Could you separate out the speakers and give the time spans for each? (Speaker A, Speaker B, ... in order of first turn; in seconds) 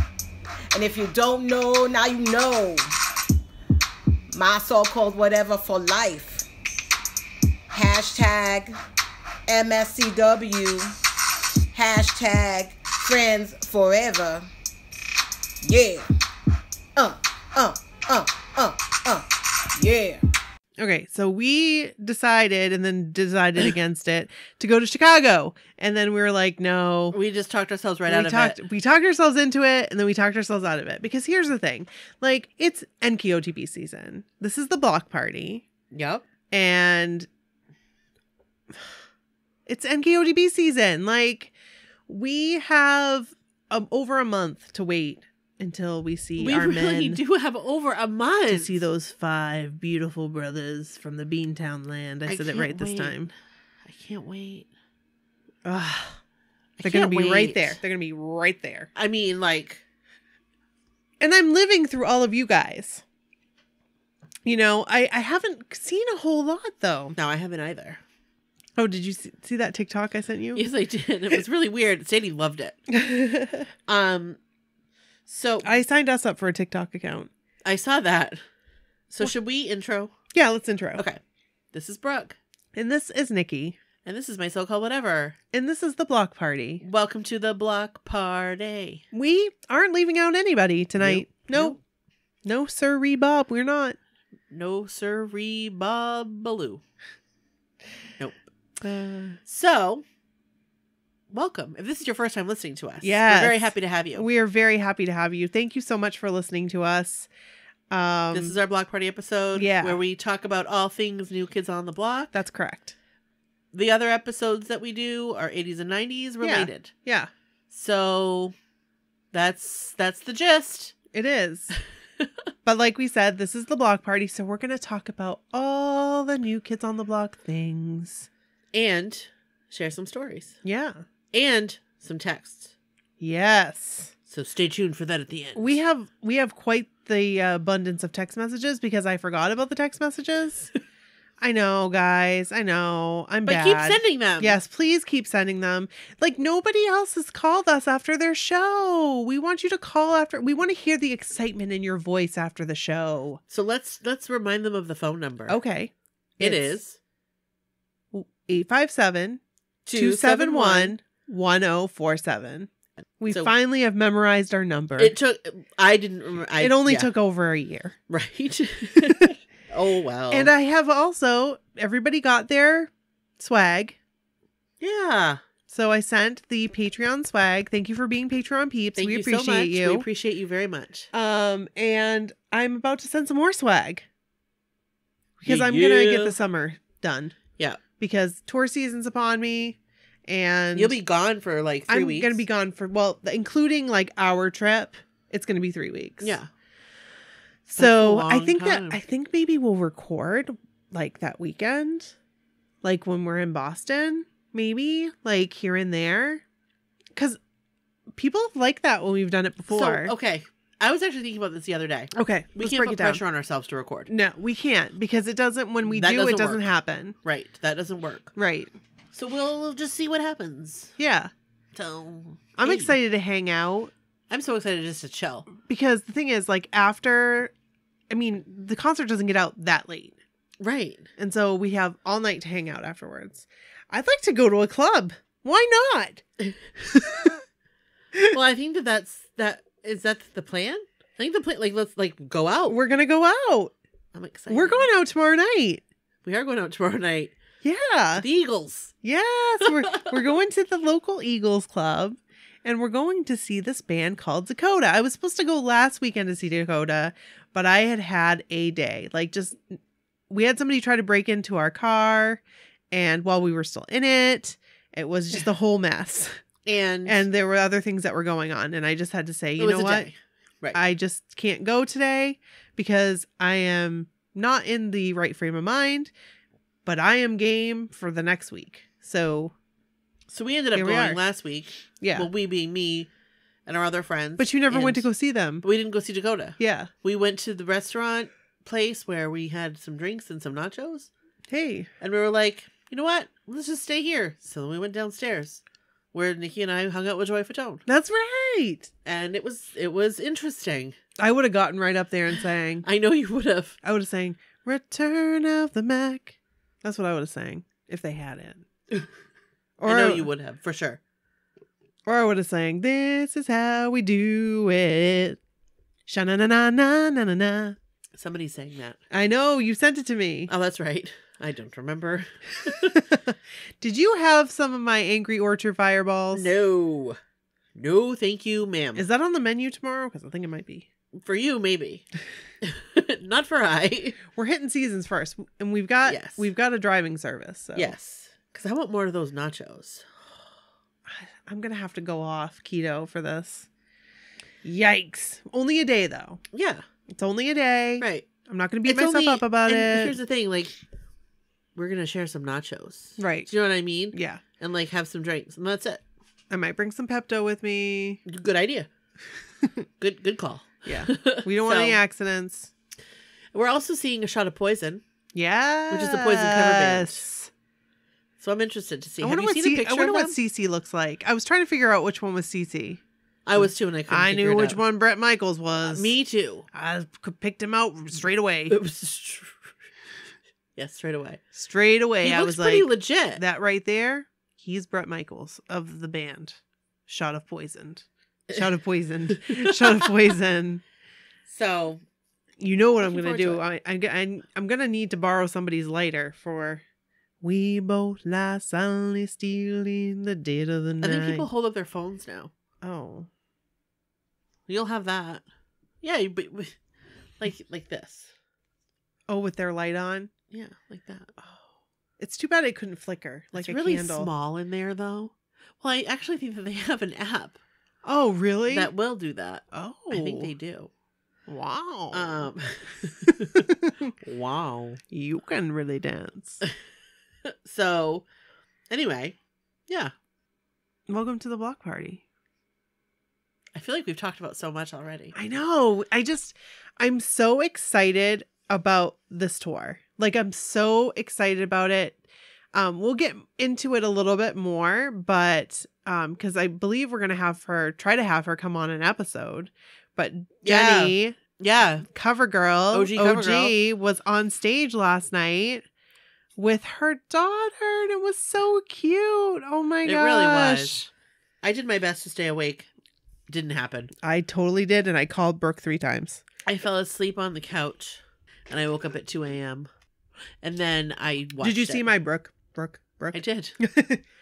Speaker A: 0.7-2.9, 4.3-6.5, 7.7-8.8, 9.5-10.9, 11.7-14.5, 15.6-16.1, 16.9-20.2
Speaker B: 20.8-27.1, 28.1-35.6, 36.5-37.3, 39.6-41.5, 42.1-47.2, 48.5-53.3, 55.6-56.2, 56.8-58.9, 61.2-63.0, 64.4-67.2, 68.8-70.7, 72.9-73.7, 75.6-77.3, 80.3-81.0, 82.7-83.8, 85.5-86.8, 89.1-91.8, 92.4-94.0, 98.8-99.4, 103.0-107.3, 107.9-108.6, 109.5-110.0, 112.3-112.9, 116.4-117.3, 121.1-121.7, 122.6-128.3, 130.6-131.0, 133.2-134.1, 135.5-140.7, 141.4-153.4, 155.5-156.8, 158.1-159.4, 159.9-162.7, 163.2-165.2, 166.6-167.9, 169.0-169.3, 170.3-174.0, 175.7-180.1, 181.1-184.1, 185.4-187.3, 188.0-191.0, 191.9-196.4, 197.7-202.1, 202.8-206.4, 208.1-210.1, 212.1-213.2, 214.1-217.2, 218.3-218.7, 221.0-221.3, 222.6-223.9, 225.5-227.5, 228.1-230.2, 231.2-236.2, 236.9-237.4, 242.7-243.7, 244.5-245.8, 247.6-248.2, 249.0-259.8, 260.3-266.4, 267.0-270.1, 270.7-276.1, 276.8-279.5, 280.7-281.2, 282.0-282.3, 284.4-285.6, 286.6-286.9, 291.5-291.9, 297.9-298.9, 301.2-302.9, 303.8-308.6, 309.8-310.3, 312.1-315.4, 316.1-317.8, 319.1-320.5, 322.6-326.5, 328.9-330.9, 334.3-337.9, 341.1-343.7, 344.6-346.4, 347.1-350.2, 353.2-353.5, 354.1-354.4, 356.5-358.2, 360.9-362.7, 365.3-367.5, 369.2-373.0, 373.6-376.1, 376.7-378.8, 381.5-390.8, 392.6-396.8, 397.4-401.5, 402.8-403.3, 409.3-410.3, 412.2-414.3, 418.0-418.9, 419.7-420.5, 421.5-422.5, 423.2-424.1, 425.1-426.6, 431.1-432.2, 435.3-442.2, 442.7-451.4, 452.1-455.9, 456.6-461.0, 464.2-466.4, 471.6-474.2
Speaker C: 27.1-28.6, 35.9-36.2, 46.4-48.8, 52.3-53.2, 53.8-54.7, 56.8-57.8, 58.9-59.8, 67.2-68.0, 70.5-72.8, 73.9-74.4, 75.3-75.7, 77.6-78.4, 79.1-80.1, 81.7-82.4, 84.0-85.4, 86.8-89.0, 91.0-91.8, 94.5-96.8, 99.5-100.0, 101.3-104.3, 108.3-112.3, 113.7-116.9, 117.7-118.5, 119.3-120.9, 128.7-130.6, 131.3-132.7, 134.3-135.8, 143.5-144.6, 153.5-155.6, 156.4-157.0, 159.8-161.0, 163.3-163.5, 165.0-167.1, 168.1-170.5, 174.8-175.4, 178.9-181.1, 185.4-186.4, 190.7-192.4, 196.2-196.5, 197.8-199.0, 209.7-214.1, 215.8-216.7, 217.2-218.3, 219.1-220.9, 221.7-222.9, 224.3-225.5, 230.6-231.1, 238.3-242.8, 244.1-244.9, 246.2-247.3, 248.2-248.9, 249.7-250.1, 266.6-267.2, 269.6-270.8, 280.3-283.1, 283.6-285.1, 285.6-291.1, 292.0-295.6, 296.1-297.8, 299.0-300.9, 302.8-303.8, 309.8-311.0, 318.1-319.0, 320.5-323.0, 326.3-327.2, 327.8-329.1, 331.1-332.1, 332.6-334.2, 336.0-336.5, 337.7-340.1, 346.5-346.8, 348.0-348.2, 348.8-350.8, 351.7-356.0, 358.2-358.9, 360.0-362.0, 363.5-365.0, 365.9-367.2, 368.4-370.4, 373.4-374.8, 375.8-376.7, 378.7-379.7, 380.8-381.4, 382.2-383.4, 389.5-389.7, 391.5-392.0, 393.0-393.6, 401.0-402.5, 404.7-405.4, 406.0-406.8, 407.4-408.3, 410.5-411.3, 413.5-417.6, 418.7-420.9, 422.1-423.7, 424.2-425.0, 427.5-428.2, 428.9-429.4, 429.9-430.1, 433.7-435.3, 450.6-452.1, 452.9-453.8, 460.0-461.1, 461.6-462.9, 463.5-464.1, 466.6-469.9, 470.6-472.1, 473.3-473.8